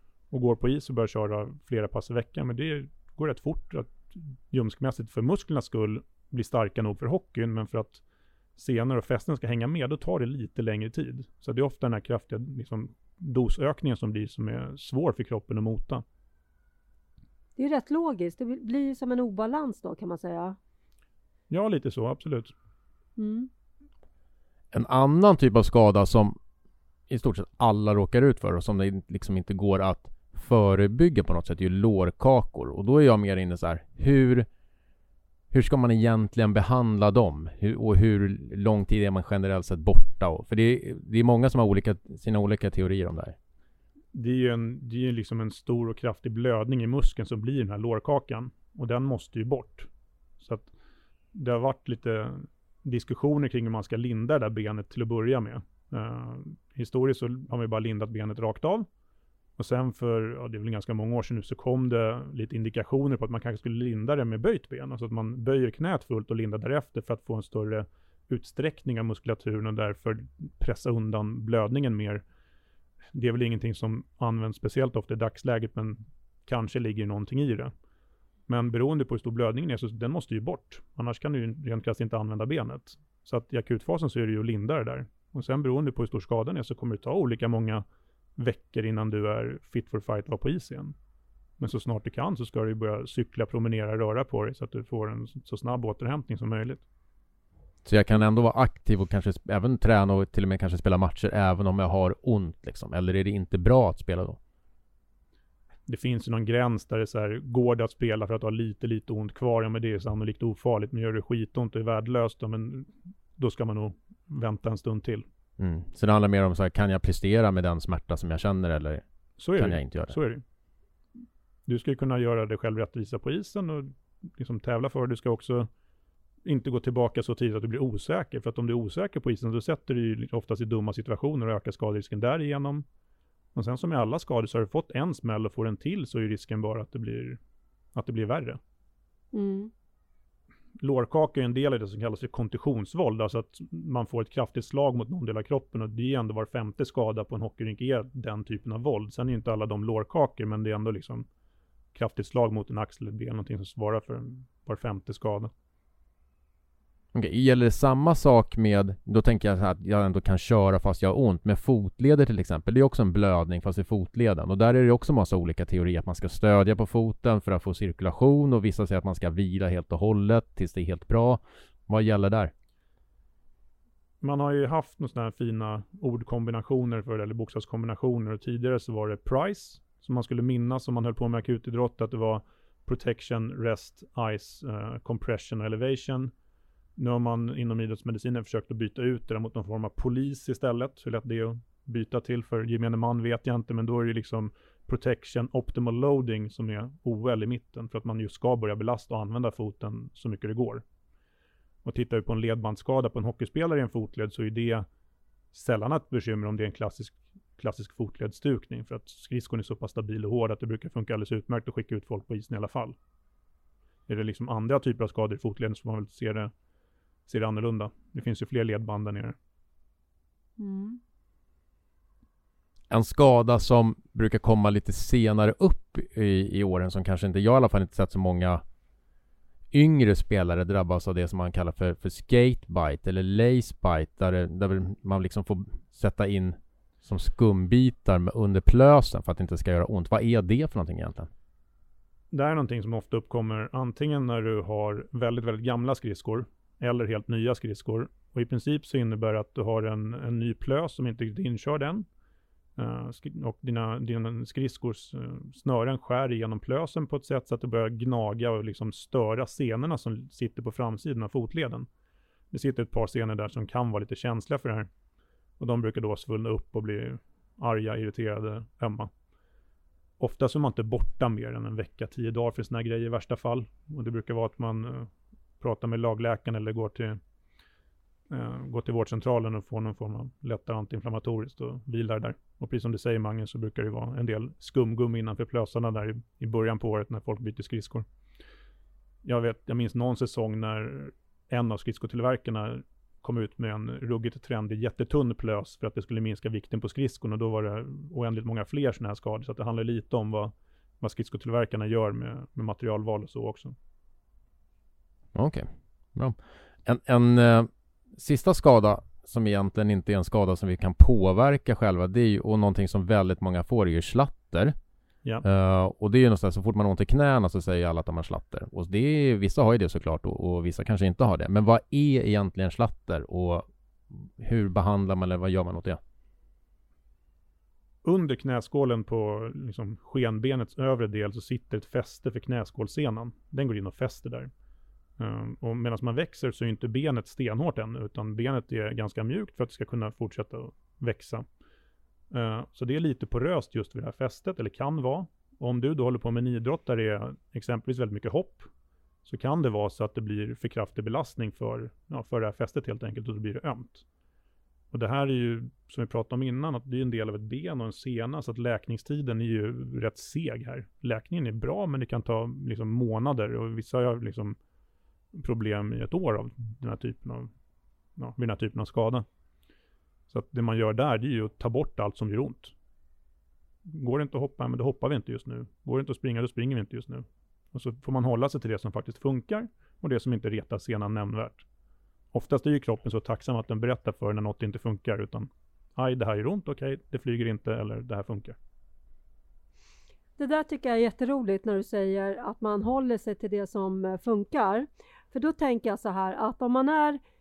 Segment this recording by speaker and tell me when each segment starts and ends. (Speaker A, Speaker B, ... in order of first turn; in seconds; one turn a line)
Speaker A: 0.3-8.0
Speaker A: 8.6-16.0
Speaker B: 17.6-20.6
Speaker A: 21.5-22.5
Speaker B: 23.2-23.5
Speaker C: 24.7-26.4
Speaker C: 27.1-34.5
Speaker C: 35.5-43.4
Speaker A: 44.1-49.9
Speaker A: 50.4-50.7
Speaker A: 51.3-58.9
Speaker A: 59.6-72.2
Speaker A: 73.1-77.7
Speaker A: 78.5-87.8
Speaker A: 88.4-90.9
Speaker A: 91.6-96.8
Speaker C: 97.8-104.4
Speaker A: 105.9-115.2
Speaker C: 115.6-119.0
Speaker A: 119.4-120.4
Speaker C: 119.5-120.1
Speaker A: 121.7-125.7
Speaker A: 126.4-132.8
Speaker A: 133.5-137.4
Speaker A: 137.9-138.6
Speaker B: 139.3-139.7
Speaker A: 140.8-151.2
Speaker A: 151.9-155.5
Speaker C: 157.1-172.5
Speaker A: 174.2-186.3
Speaker A: 187.0-200.8
Speaker A: 201.8-204.8
Speaker A: 205.5-212.9
Speaker A: 214.1-216.5
Speaker A: 217.3-219.4
Speaker B: 220.6-221.0
Speaker C: 222.9-228.6
Speaker C: 229.7-241.3
Speaker A: 242.3-252.1
Speaker A: 252.8-261.9
Speaker A: 262.5-264.9
Speaker A: 265.6-269.1
Speaker A: 270.2-277.2
Speaker A: 278.3-288.0
Speaker A: 289.2-303.7
Speaker C: 305.3-314.7
Speaker C: 315.4-326.0
Speaker A: 328.0-334.5
Speaker A: 335.2-341.4
Speaker A: 342.3-348.7
Speaker A: 349.2-354.0
Speaker A: 354.9-364.6
Speaker A: 365.3-367.5
Speaker A: 368.2-369.2
Speaker A: 370.3-372.7
Speaker A: 373.8-381.6
Speaker A: 382.3-388.6
Speaker B: 390.4-397.2